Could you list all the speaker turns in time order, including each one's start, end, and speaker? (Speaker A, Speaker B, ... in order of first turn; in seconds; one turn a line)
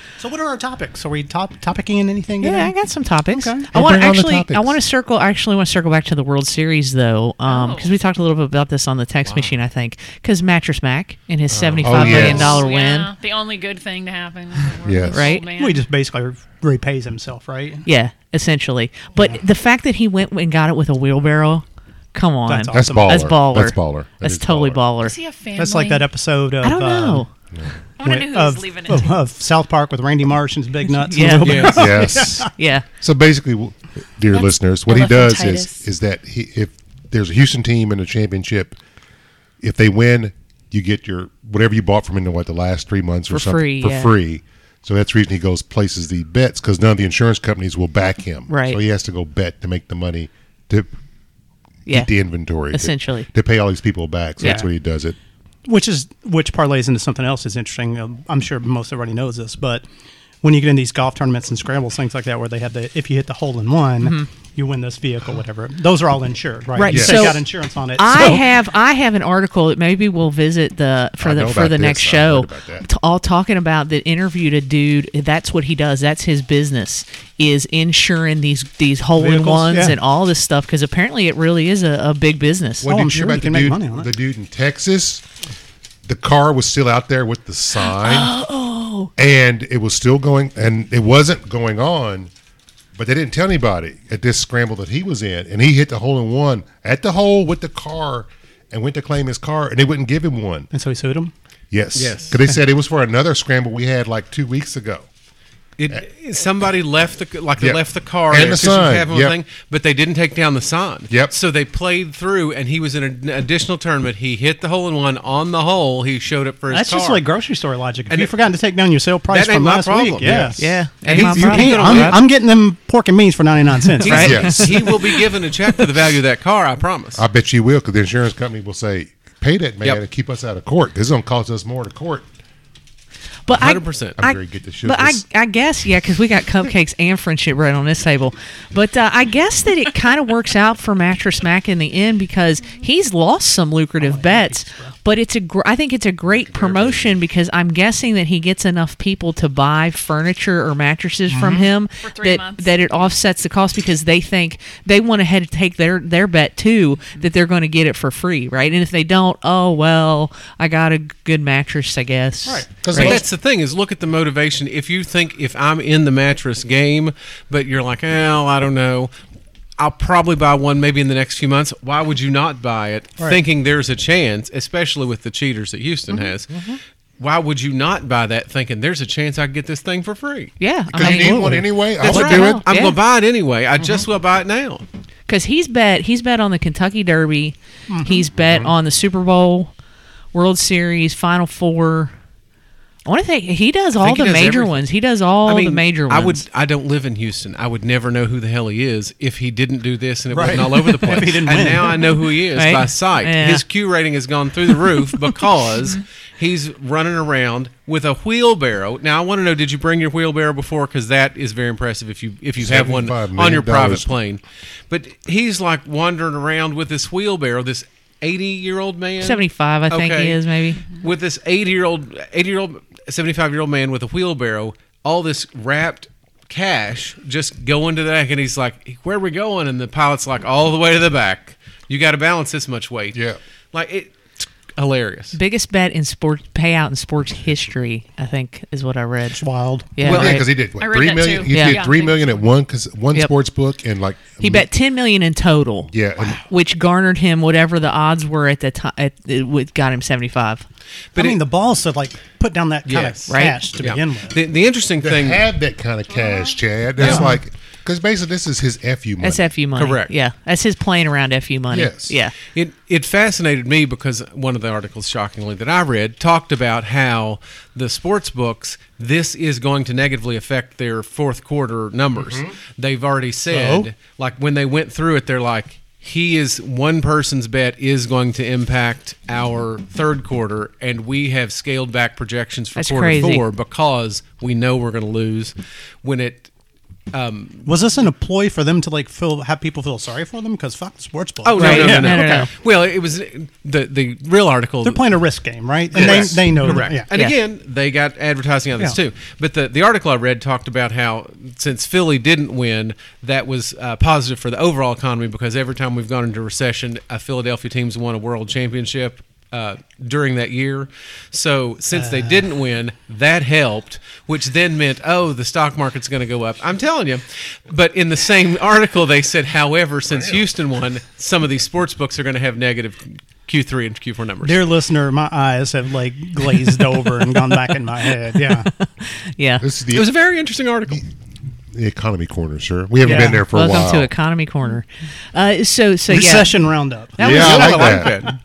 Speaker A: 0.2-2.8
Speaker B: 2.4-13.1
Speaker A: 3.3-3.7
Speaker C: 3.7-4.8
Speaker D: 7.4-7.9
Speaker E: 9.3-9.6
Speaker E: 11.5-12.3
Speaker C: 11.8-12.6
Speaker D: 12.0-15.8
Speaker C: 14.8-15.3
Speaker B: 15.1-15.5
Speaker A: 15.6-17.9
Speaker B: 17.9-25.2
Speaker A: 19.2-19.4
Speaker A: 22.5-23.3
Speaker C: 22.7-24.8
Speaker D: 25.0-26.1
Speaker A: 25.6-27.3
Speaker B: 26.6-27.3
Speaker D: 28.0-29.2
Speaker A: 28.0-32.5
Speaker B: 31.0-32.9
Speaker E: 31.4-31.9
Speaker C: 31.7-38.8
Speaker D: 34.3-35.9
Speaker C: 39.6-50.9
Speaker B: 43.3-44.1
Speaker B: 48.5-48.8
Speaker B: 51.9-52.1
Speaker C: 51.9-55.2
Speaker B: 52.6-53.3
Speaker B: 54.4-54.7
Speaker A: 54.4-54.7
Speaker A: 55.7-59.8
Speaker A: 60.4-68.4
Speaker B: 64.0-64.3
Speaker B: 66.8-82.9
Speaker C: 66.9-67.4
Speaker C: 71.2-72.9
Speaker A: 79.2-80.0
Speaker C: 82.8-85.2
Speaker A: 82.8-84.1
Speaker C: 86.0-88.3
Speaker B: 87.8-89.1
Speaker C: 89.2-92.3
Speaker C: 93.0-100.7
Speaker A: 100.7-101.3
Speaker C: 101.7-105.1
Speaker E: 102.0-102.4
Speaker E: 105.8-117.2
Speaker C: 107.6-109.4
Speaker A: 116.7-124.7
Speaker E: 118.1-118.3
Speaker E: 119.3-122.2
Speaker C: 120.2-120.6
Speaker B: 120.6-122.2
Speaker B: 124.0-125.8
Speaker E: 124.0-127.2
Speaker C: 124.2-124.7
Speaker C: 127.2-132.3
Speaker B: 133.5-163.2
Speaker E: 133.5-134.2
Speaker C: 134.2-135.2
Speaker A: 144.0-144.9
Speaker C: 146.4-147.2
Speaker A: 151.3-151.7
Speaker C: 151.4-151.6
Speaker D: 152.0-153.1
Speaker A: 162.4-163.1
Speaker C: 162.8-163.2
Speaker E: 162.9-169.1
Speaker E: 169.8-176.5
Speaker A: 176.1-176.7
Speaker E: 177.2-180.5
Speaker B: 180.6-183.0
Speaker C: 180.9-182.6
Speaker E: 181.1-181.4
Speaker E: 182.0-184.9
Speaker B: 185.3-189.7
Speaker A: 187.9-188.2
Speaker C: 188.3-188.7
Speaker B: 190.3-192.1
Speaker B: 193.1-196.4
Speaker E: 194.0-194.8
Speaker E: 195.5-235.4
Speaker A: 200.3-202.2
Speaker B: 202.5-203.6
Speaker C: 212.6-214.1
Speaker B: 219.2-220.8
Speaker C: 233.1-233.4
Speaker B: 235.3-240.5
Speaker A: 239.4-240.4
Speaker E: 240.0-240.4
Speaker C: 240.0-244.7
Speaker D: 240.8-242.4
Speaker B: 241.5-241.9
Speaker B: 244.4-250.7
Speaker C: 245.9-246.4
Speaker E: 251.1-251.4
Speaker A: 251.2-254.4
Speaker E: 252.9-255.4
Speaker B: 253.3-253.6
Speaker C: 255.0-259.5
Speaker D: 256.1-256.6
Speaker E: 257.0-257.3
Speaker A: 257.0-257.3
Speaker B: 259.2-262.4
Speaker E: 259.8-260.1
Speaker C: 261.7-262.2
Speaker E: 262.5-286.5
Speaker A: 273.5-273.9
Speaker B: 282.8-283.4
Speaker E: 287.1-287.7
Speaker A: 287.6-292.5
Speaker E: 291.4-295.0
Speaker B: 291.6-292.5
Speaker A: 294.8-297.1
Speaker C: 295.9-296.4
Speaker E: 295.9-324.6
Speaker B: 296.7-297.4
Speaker A: 311.9-312.4
Speaker A: 324.4-328.7
Speaker B: 326.9-329.7
Speaker C: 329.6-330.1
Speaker E: 329.9-331.0
Speaker C: 331.7-334.1
Speaker A: 333.0-333.4
Speaker B: 333.1-336.6
Speaker A: 336.1-338.3
Speaker B: 337.2-338.0
Speaker C: 337.2-338.1
Speaker E: 337.2-338.4